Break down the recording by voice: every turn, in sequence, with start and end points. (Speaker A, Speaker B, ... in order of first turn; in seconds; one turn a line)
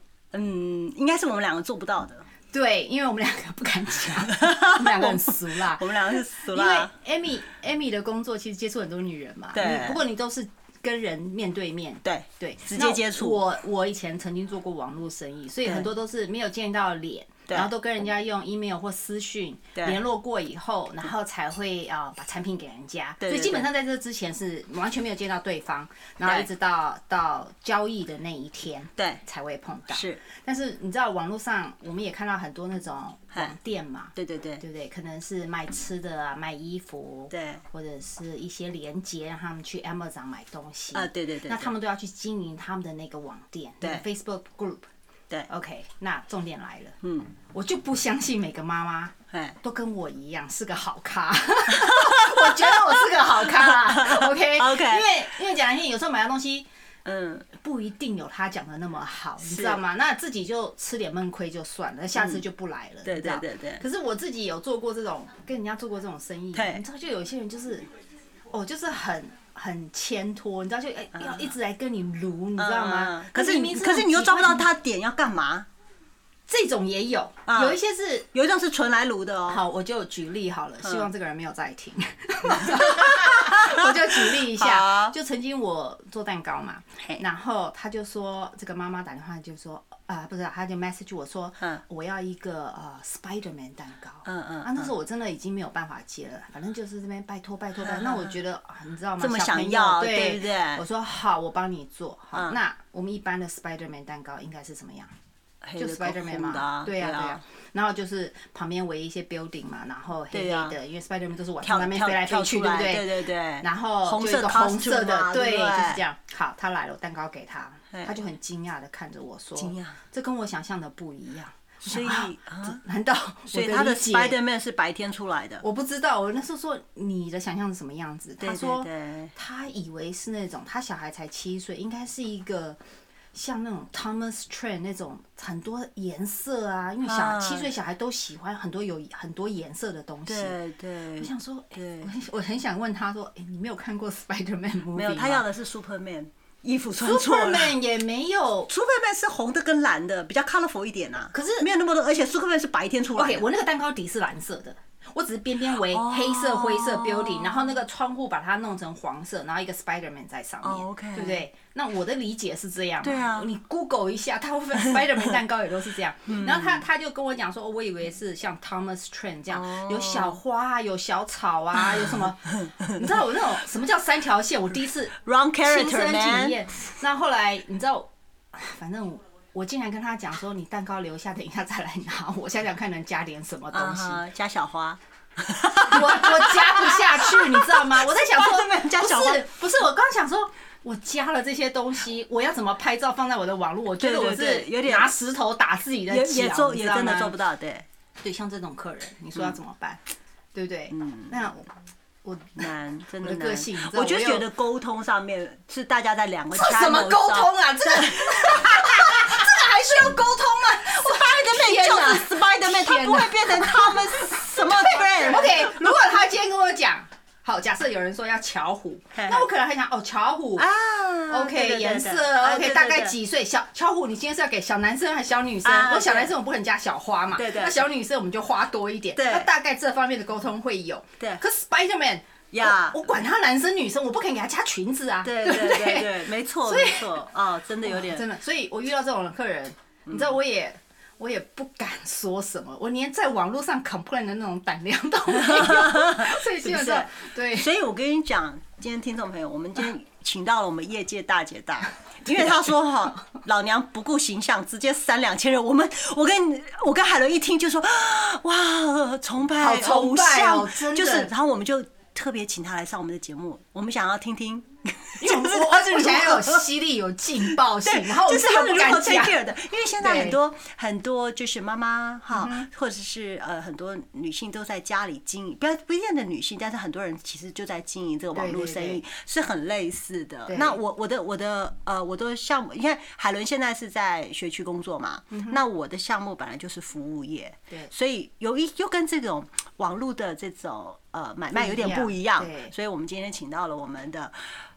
Speaker A: 0.3-2.3
Speaker B: 2.5-44.9
Speaker A: 4.3-6.9
Speaker A: 9.5-10.0
Speaker A: 12.0-13.4
Speaker A: 23.2-23.7
Speaker A: 26.2-26.5
Speaker A: 29.0-29.2
Speaker A: 29.9-30.2
Speaker A: 34.1-34.6
Speaker A: 37.3-37.6
Speaker A: 40.9-41.7
Speaker B: 45.5-56.7
Speaker A: 47.0-47.3
Speaker A: 49.3-49.5
Speaker A: 51.7-55.1
Speaker A: 57.0-57.5
Speaker B: 57.5-67.8
Speaker A: 59.4-59.8
Speaker A: 62.1-62.4
Speaker A: 63.0-63.8
Speaker A: 66.5-66.8
Speaker B: 68.5-74.7
Speaker A: 71.1-71.5
Speaker A: 72.6-75.7
Speaker B: 76.5-78.3
Speaker A: 77.5-77.8
Speaker A: 78.3-79.6
Speaker B: 79.5-105.1
Speaker A: 80.8-81.1
Speaker A: 82.5-85.1
Speaker A: 94.2-94.9
Speaker A: 97.8-98.4
Speaker A: 99.2-100.8
Speaker A: 102.3-102.6
Speaker A: 105.6-107.4
Speaker B: 105.8-124.4
Speaker A: 110.3-110.8
Speaker A: 111.6-116.0
Speaker A: 117.9-118.2
Speaker A: 119.6-120.0
Speaker A: 121.8-122.8
Speaker A: 123.5-125.6
Speaker B: 125.6-132.8
Speaker A: 128.4-129.3
Speaker B: 133.3-140.6
Speaker A: 137.0-137.7
Speaker A: 140.2-142.1
Speaker B: 141.2-145.4
Speaker A: 144.9-147.8
Speaker B: 147.0-148.7
Speaker A: 148.7-153.4
Speaker B: 151.3-151.7
Speaker B: 153.0-184.2
Speaker A: 155.7-157.8
Speaker A: 160.6-161.4
Speaker A: 163.0-163.5
Speaker A: 166.3-166.8
Speaker A: 169.5-170.4
Speaker A: 171.8-173.0
Speaker A: 175.2-176.6
Speaker A: 183.7-189.4
Speaker B: 185.8-197.3
Speaker A: 194.0-195.1
Speaker A: 196.1-197.8
Speaker B: 198.2-200.0
Speaker B: 200.5-201.7
Speaker A: 200.9-201.4
Speaker B: 202.2-202.7
Speaker A: 202.6-209.6
Speaker B: 203.2-204.5
Speaker B: 206.5-220.7
Speaker A: 211.0-215.9
Speaker A: 219.1-219.4
Speaker A: 220.6-223.2
Speaker B: 221.3-237.2
Speaker A: 225.6-226.3
Speaker A: 227.3-227.8
Speaker A: 229.1-229.5
Speaker A: 232.5-233.0
Speaker A: 235.2-238.3
Speaker B: 237.8-247.7
Speaker A: 240.1-240.4
Speaker A: 245.3-266.6
Speaker B: 259.6-261.3
Speaker B: 265.2-269.4
Speaker A: 267.4-294.3
Speaker B: 270.0-270.4
Speaker B: 272.4-272.6
Speaker B: 278.3-279.0
Speaker B: 280.5-280.8
Speaker B: 285.3-285.6
Speaker B: 291.5-292.7